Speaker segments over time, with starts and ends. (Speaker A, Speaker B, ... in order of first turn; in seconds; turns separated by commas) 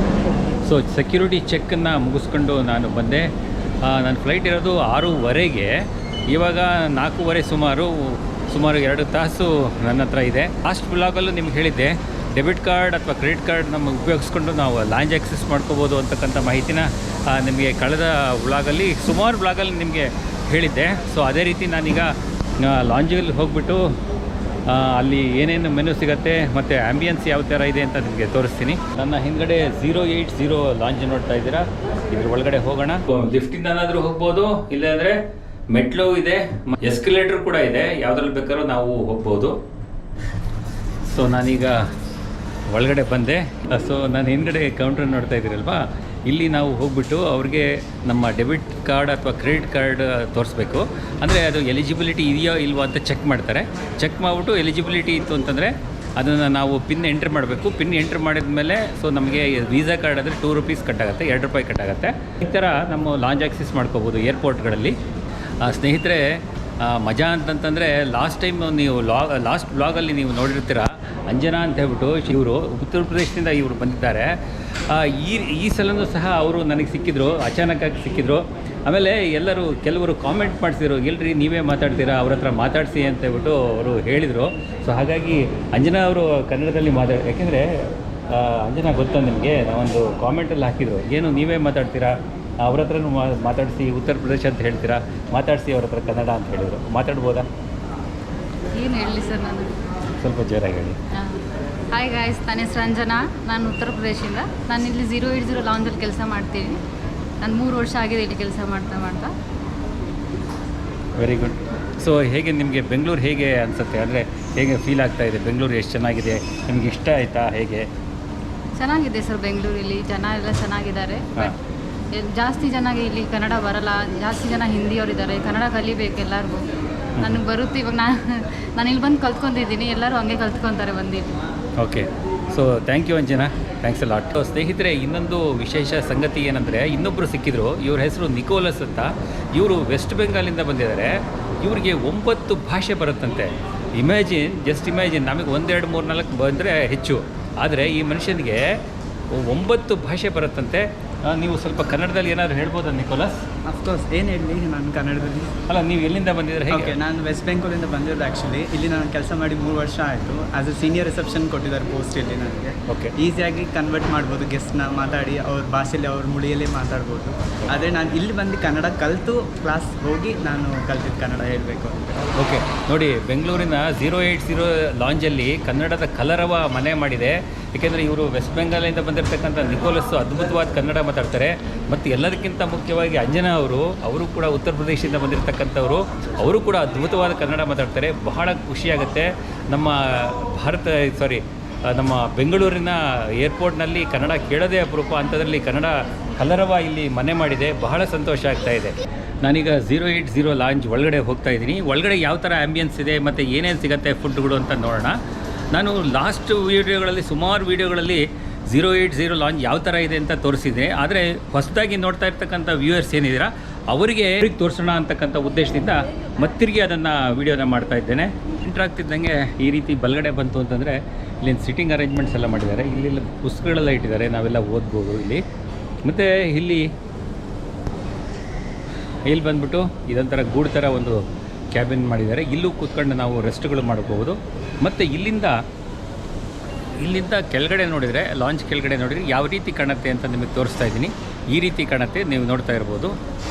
Speaker A: 0.6-3.3, Speaker A: 3.8-23.9, Speaker A: 24.6-35.2, Speaker A: 35.7-39.6, Speaker A: 41.0-41.9, Speaker A: 42.7-65.0, Speaker A: 65.6-97.5, Speaker B: 98.7-99.7, Speaker A: 100.2-101.0, Speaker B: 101.1-106.8, Speaker B: 107.4-109.3, Speaker A: 111.2-117.9, Speaker B: 118.8-121.5, Speaker B: 122.1-131.4, Speaker A: 131.8-153.4, Speaker C: 153.6-155.6, Speaker A: 155.7-156.9, Speaker C: 156.7-172.3, Speaker A: 162.9-163.1, Speaker A: 172.3-205.2, Speaker A: 205.7-225.4, Speaker A: 226.0-226.9, Speaker A: 229.2-235.6, Speaker A: 237.0-243.2